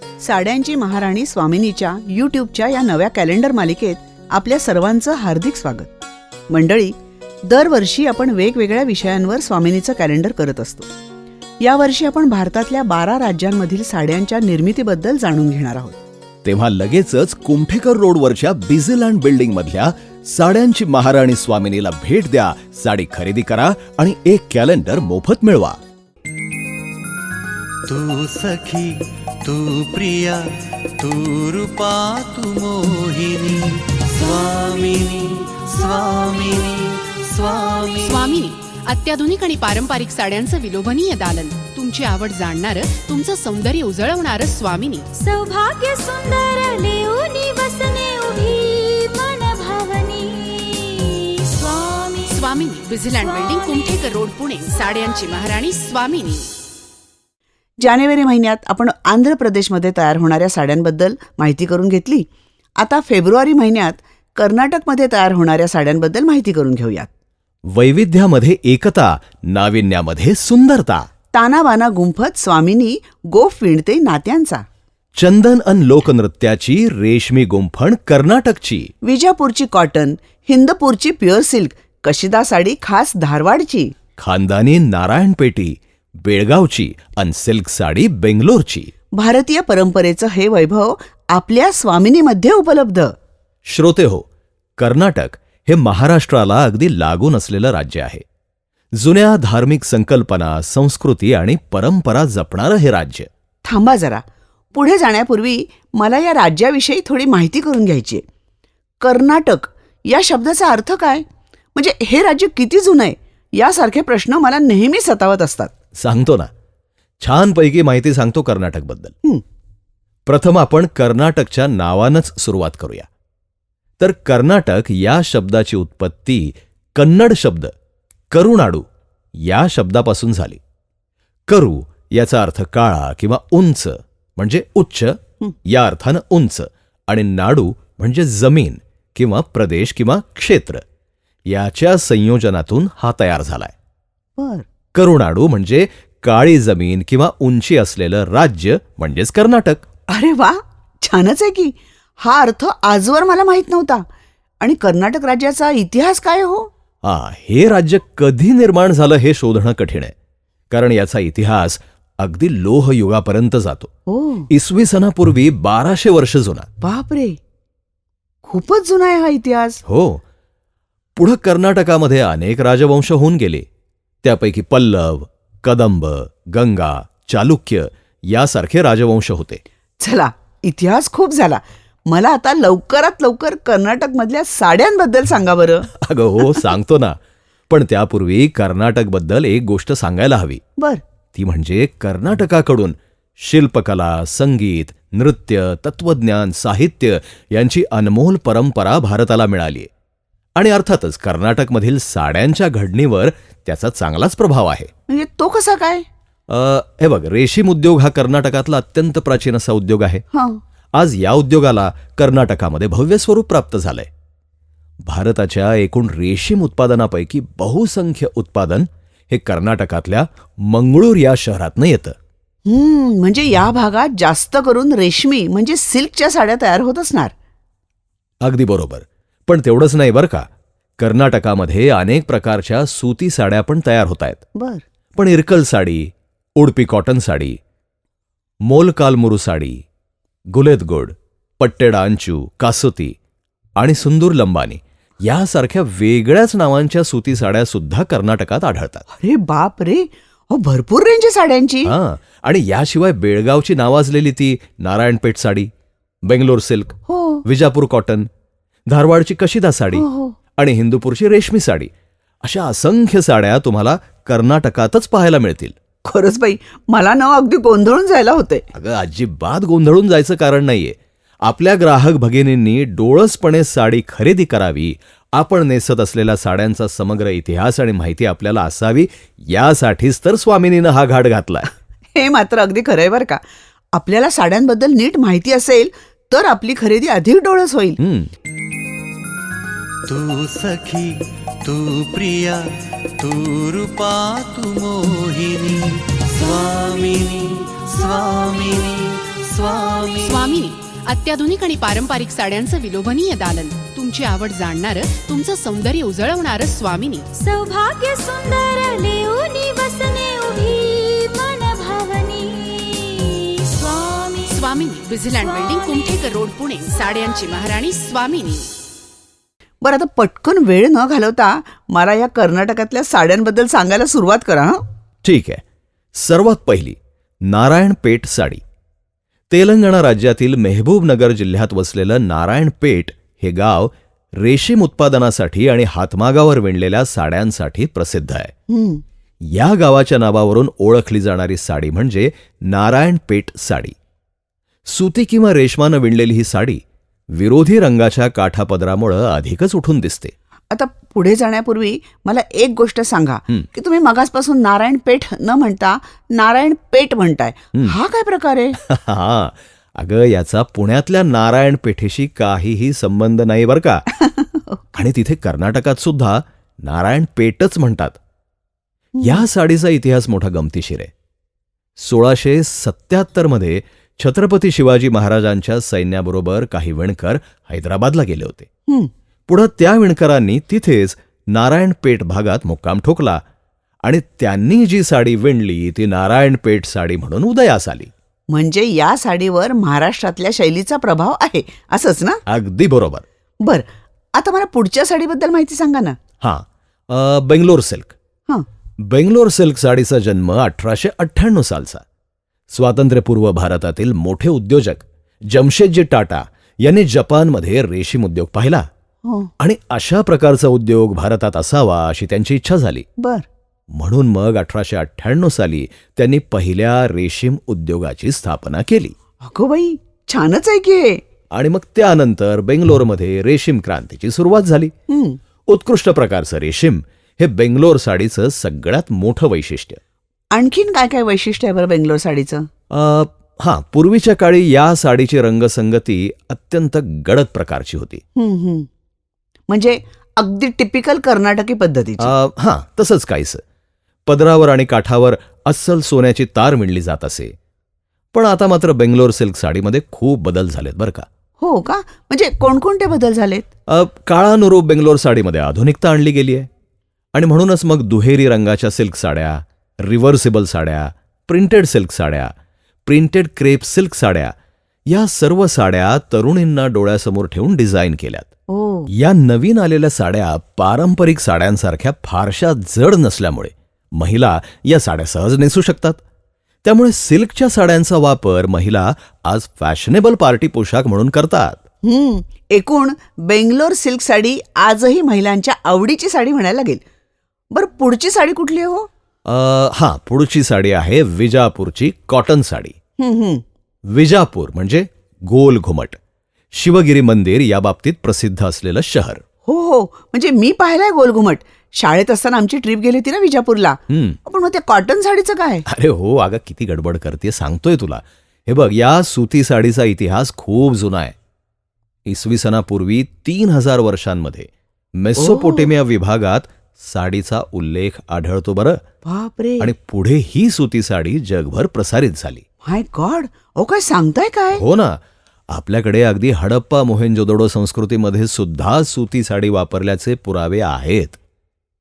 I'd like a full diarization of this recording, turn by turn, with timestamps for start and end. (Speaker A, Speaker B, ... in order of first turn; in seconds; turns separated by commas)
Speaker A: 0.2-5.9, Speaker A: 6.5-7.0, Speaker A: 7.5-10.9, Speaker A: 11.6-16.0, Speaker B: 16.4-25.8, Speaker C: 27.9-38.3, Speaker D: 38.0-45.1, Speaker E: 45.1-52.2, Speaker D: 52.2-56.5, Speaker A: 57.8-62.3, Speaker A: 62.8-67.1, Speaker B: 67.7-71.1, Speaker A: 71.3-74.6, Speaker B: 75.2-78.9, Speaker A: 79.0-83.9, Speaker B: 84.2-88.9, Speaker A: 89.2-93.1, Speaker B: 93.7-94.2, Speaker B: 94.8-98.2, Speaker B: 99.0-103.3, Speaker A: 103.6-104.2, Speaker A: 104.7-108.2, Speaker A: 109.0-111.2, Speaker A: 111.8-115.7, Speaker B: 116.0-116.5, Speaker B: 117.2-119.1, Speaker B: 120.3-123.1, Speaker B: 124.0-127.7, Speaker B: 128.3-128.8, Speaker B: 129.4-130.6, Speaker B: 131.5-140.8, Speaker B: 141.5-143.7, Speaker A: 144.4-144.7, Speaker B: 144.9-149.9, Speaker A: 150.1-154.0, Speaker A: 154.6-156.7, Speaker B: 157.1-160.1, Speaker B: 160.7-163.9, Speaker A: 164.1-164.5, Speaker B: 164.5-166.7, Speaker A: 166.8-167.4, Speaker A: 168.4-169.8, Speaker B: 169.8-170.2, Speaker B: 171.2-173.7, Speaker B: 174.2-179.6, Speaker A: 180.0-185.9, Speaker B: 185.9-187.2, Speaker B: 187.7-190.6, Speaker B: 191.3-199.9, Speaker B: 200.6-204.9, Speaker A: 205.1-206.1, Speaker B: 206.5-210.2, Speaker A: 210.3-210.6, Speaker B: 210.9-214.1, Speaker B: 215.0-222.1, Speaker A: 222.7-227.3, Speaker B: 228.4-230.5, Speaker B: 231.0-234.4, Speaker A: 234.6-234.8, Speaker B: 235.1-237.6, Speaker B: 238.6-239.8, Speaker B: 240.5-243.2, Speaker B: 243.8-249.1, Speaker A: 249.1-251.9, Speaker B: 251.9-255.7, Speaker B: 256.3-258.3, Speaker A: 257.1-257.4, Speaker B: 258.9-260.1, Speaker A: 259.9-260.4, Speaker B: 260.6-261.9, Speaker B: 262.4-265.8, Speaker A: 266.1-268.6, Speaker B: 268.7-281.7, Speaker A: 282.1-283.4, Speaker A: 283.9-288.0, Speaker B: 288.0-288.3, Speaker C: 290.1-300.5, Speaker D: 300.2-307.3, Speaker E: 307.3-314.5, Speaker D: 314.5-318.7, Speaker A: 319.8-324.8, Speaker B: 325.2-325.6, Speaker B: 326.2-328.6, Speaker B: 329.5-338.5, Speaker A: 338.7-339.0, Speaker B: 339.5-344.0, Speaker B: 344.9-346.8, Speaker B: 347.4-350.3, Speaker A: 350.7-358.8, Speaker B: 358.8-364.1, Speaker A: 364.2-364.8, Speaker B: 364.9-368.2, Speaker A: 369.1-369.4, Speaker B: 369.2-371.1, Speaker B: 372.0-378.7, Speaker B: 379.5-383.4, Speaker B: 384.0-388.1, Speaker A: 388.5-392.4, Speaker B: 392.5-393.2, Speaker A: 393.6-396.2, Speaker B: 396.4-398.1, Speaker B: 399.1-402.0, Speaker B: 402.7-408.9, Speaker A: 409.2-409.5, Speaker B: 409.6-413.1, Speaker A: 413.2-413.5, Speaker B: 413.9-419.1, Speaker A: 419.4-421.2, Speaker B: 421.5-424.9, Speaker A: 425.1-425.4, Speaker B: 425.7-430.0, Speaker A: 430.5-432.6, Speaker B: 432.9-438.2, Speaker A: 438.4-438.9, Speaker A: 439.7-442.3, Speaker B: 442.2-443.6, Speaker B: 444.2-447.5, Speaker B: 448.3-451.2, Speaker A: 451.6-453.7, Speaker B: 453.9-456.7, Speaker B: 457.3-462.5, Speaker B: 463.1-464.5, Speaker B: 465.1-468.5, Speaker A: 468.7-469.1, Speaker B: 469.1-476.2, Speaker B: 476.8-481.8, Speaker A: 482.0-487.0, Speaker A: 487.7-489.1, Speaker B: 489.5-492.9, Speaker A: 493.2-493.6, Speaker B: 494.1-496.2, Speaker B: 496.7-499.4, Speaker A: 499.7-505.9, Speaker B: 504.1-504.4, Speaker B: 505.9-511.4, Speaker B: 512.2-519.0, Speaker A: 515.4-515.9, Speaker A: 519.2-519.9, Speaker B: 519.8-522.6, Speaker A: 522.8-524.8, Speaker B: 524.8-525.2, Speaker B: 525.7-531.4